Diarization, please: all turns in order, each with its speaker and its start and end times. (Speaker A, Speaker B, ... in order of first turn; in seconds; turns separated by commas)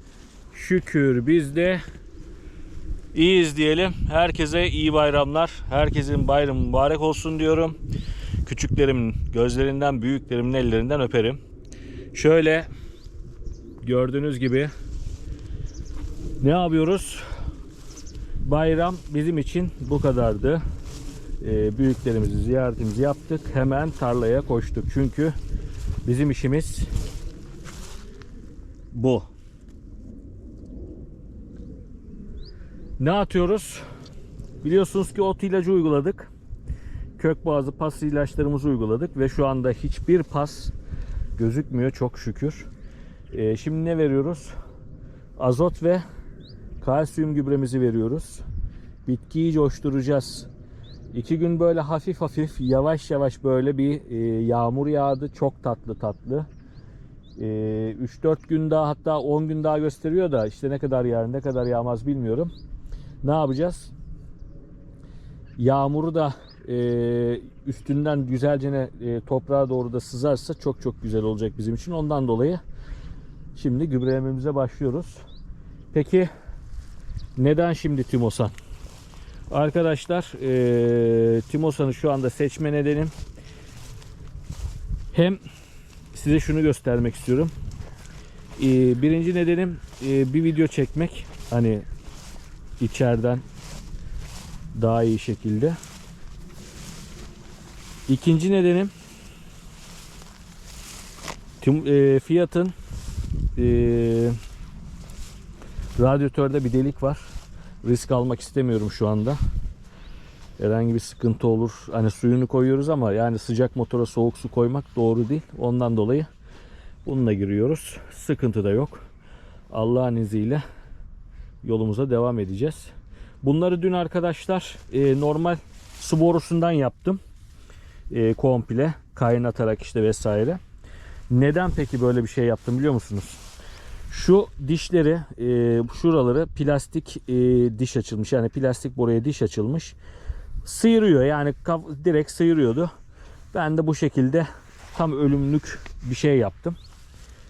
Speaker A: 0.5-1.8, Speaker A: 3.1-7.8, Speaker A: 8.4-11.4, Speaker A: 12.1-12.7, Speaker A: 13.8-14.7, Speaker A: 16.4-17.3, Speaker A: 18.4-20.6, Speaker A: 21.4-25.4, Speaker A: 26.1-26.9, Speaker A: 28.9-29.3, Speaker A: 33.0-33.8, Speaker A: 34.6-36.3, Speaker A: 37.2-40.7, Speaker A: 41.4-42.7, Speaker A: 43.3-44.5, Speaker A: 45.4-46.0, Speaker A: 46.8-48.4, Speaker A: 49.1-50.5, Speaker A: 51.1-56.5, Speaker A: 57.4-62.5, Speaker A: 63.2-63.9, Speaker A: 65.6-72.6, Speaker A: 73.5-75.2, Speaker A: 75.9-76.3, Speaker A: 77.4-78.5, Speaker A: 79.5-83.1, Speaker A: 85.1-85.4, Speaker A: 86.1-87.5, Speaker A: 88.6-91.8, Speaker A: 92.8-93.4, Speaker A: 94.8-95.8, Speaker A: 98.1-98.9, Speaker A: 101.6-102.7, Speaker A: 103.5-104.4, Speaker A: 106.0-107.2, Speaker A: 107.8-109.4, Speaker A: 110.6-116.3, Speaker A: 117.0-119.0, Speaker A: 119.7-120.6, Speaker A: 121.6-122.9, Speaker A: 123.4-127.2, Speaker A: 128.1-130.6, Speaker A: 131.3-133.4, Speaker A: 134.1-139.9, Speaker A: 140.6-142.9, Speaker A: 143.5-146.8